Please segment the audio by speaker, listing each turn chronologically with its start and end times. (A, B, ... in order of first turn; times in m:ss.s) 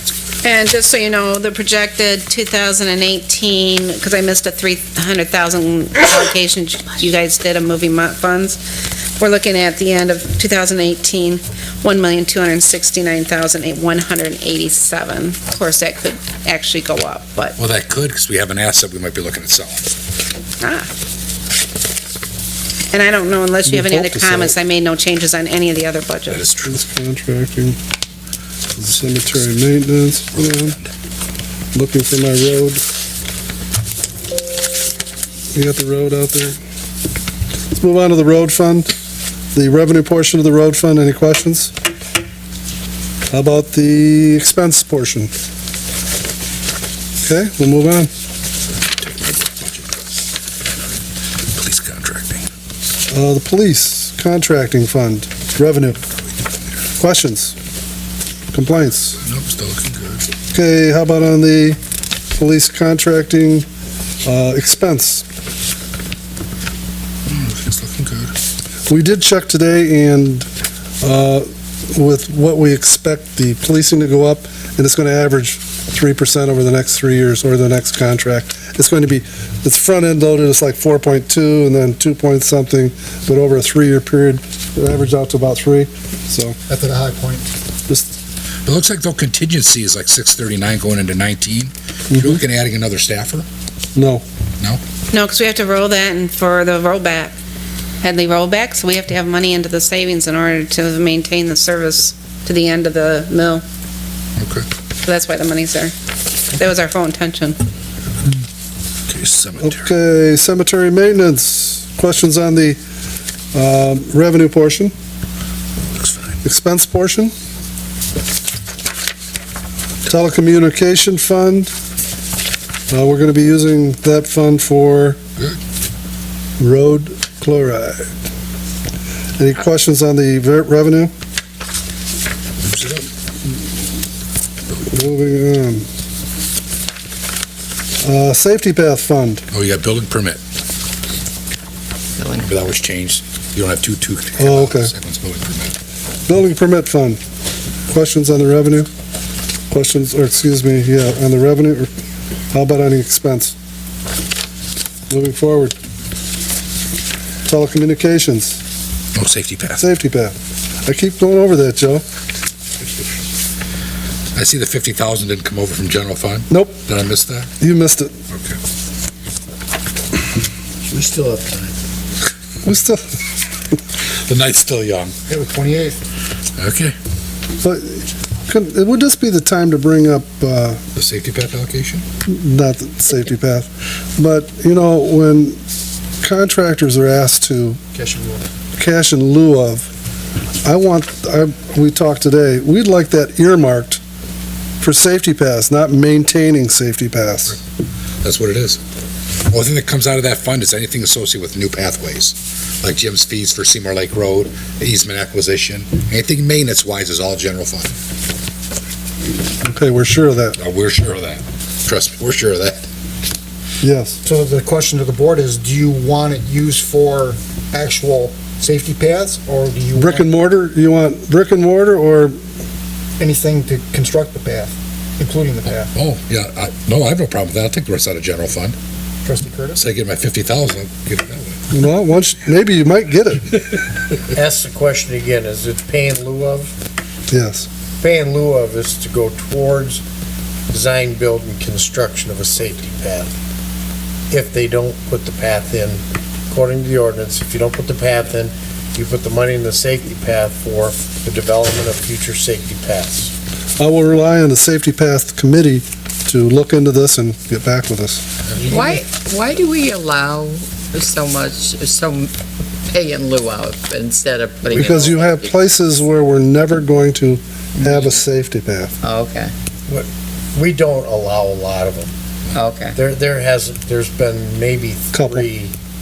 0:00.4-0:08.6 A
0:09.2-0:17.6 A
0:17.6-0:19.9 B
0:20.6-0:20.9 A
0:22.9-0:26.4 A
0:23.6-0:24.5 C
0:26.3-0:26.8 B
0:26.6-0:27.8 C
0:28.8-0:30.8 C
0:30.4-0:30.8 B
0:31.7-0:32.8 C
0:35.5-0:36.6 C
0:37.7-0:38.9 C
0:39.5-0:41.7 C
0:43.3-0:45.3 C
0:47.2-0:48.1 C
0:48.9-0:50.1 B
0:51.5-0:52.5 B
0:53.1-0:56.0 C
0:57.0-0:57.5 C
0:58.5-0:59.2 C
0:59.2-1:00.3 B
1:00.5-1:01.8 C
1:02.3-1:03.7 C
1:04.2-1:05.2 C
1:07.3-1:08.3 B
1:08.9-1:10.5 C
1:11.0-1:26.6 C
1:26.7-1:27.5 D
1:28.6-1:33.4 B
1:32.1-1:32.4 C
1:34.0-1:34.2 C
1:35.1-1:37.3 A
1:38.0-1:43.6 A
1:44.4-1:44.6 B
1:45.0-1:45.9 A
1:46.5-1:47.6 A
1:49.1-1:49.8 B
1:49.6-1:52.8 C
1:53.5-1:54.9 C
1:55.9-1:56.4 B
1:56.4-1:57.3 C
2:00.1-2:01.7 C
2:02.9-2:05.2 C
2:06.6-2:08.1 C
2:09.4-2:11.1 C
2:12.6-2:13.1 B
2:14.9-2:15.8 C
2:18.0-2:19.4 C
2:19.5-2:20.4 B
2:22.2-2:22.5 E
2:22.4-2:25.7 B
2:24.4-2:24.9 C
2:26.3-2:27.2 C
2:27.9-2:28.9 C
2:29.7-2:31.9 C
2:32.5-2:33.5 C
2:35.1-2:35.7 C
2:37.5-2:38.6 C
2:39.1-2:39.8 B
2:39.8-2:42.0 C
2:44.3-2:47.5 B
2:46.5-2:46.8 C
2:47.6-2:48.1 C
2:48.3-2:48.6 B
2:50.9-2:51.7 D
2:52.6-2:53.0 C
2:54.0-2:55.1 B
2:55.3-2:56.0 D
2:56.6-2:56.9 B
2:57.6-3:00.8 C
3:01.0-3:02.0 B
3:02.2-3:05.6 C
3:06.2-3:07.8 C
3:07.9-3:08.4 D
3:08.8-3:09.9 C
3:10.6-3:14.0 C
3:14.8-3:17.6 C
3:18.2-3:18.8 B
3:19.5-3:27.9 B
3:29.6-3:30.6 C
3:30.6-3:32.9 B
3:33.8-3:34.2 C
3:34.2-3:40.3 D
3:40.0-3:42.3 C
3:43.2-3:45.9 D
3:45.9-3:48.8 B
3:49.2-3:49.8 D
3:49.8-3:51.6 B
3:51.7-3:53.6 C
3:54.3-3:56.7 F
3:57.3-3:57.7 C
3:58.0-4:00.0 F
4:00.7-4:03.3 F
4:04.3-4:13.3 F
4:13.8-4:18.2 C
4:18.7-4:22.3 E
4:22.9-4:25.9 E
4:24.7-4:29.0 C
4:27.8-4:28.2 E
4:29.0-4:29.5 E
4:29.9-4:32.1 F
4:32.5-4:33.0 E
4:32.9-4:35.7 F
4:35.1-4:35.5 C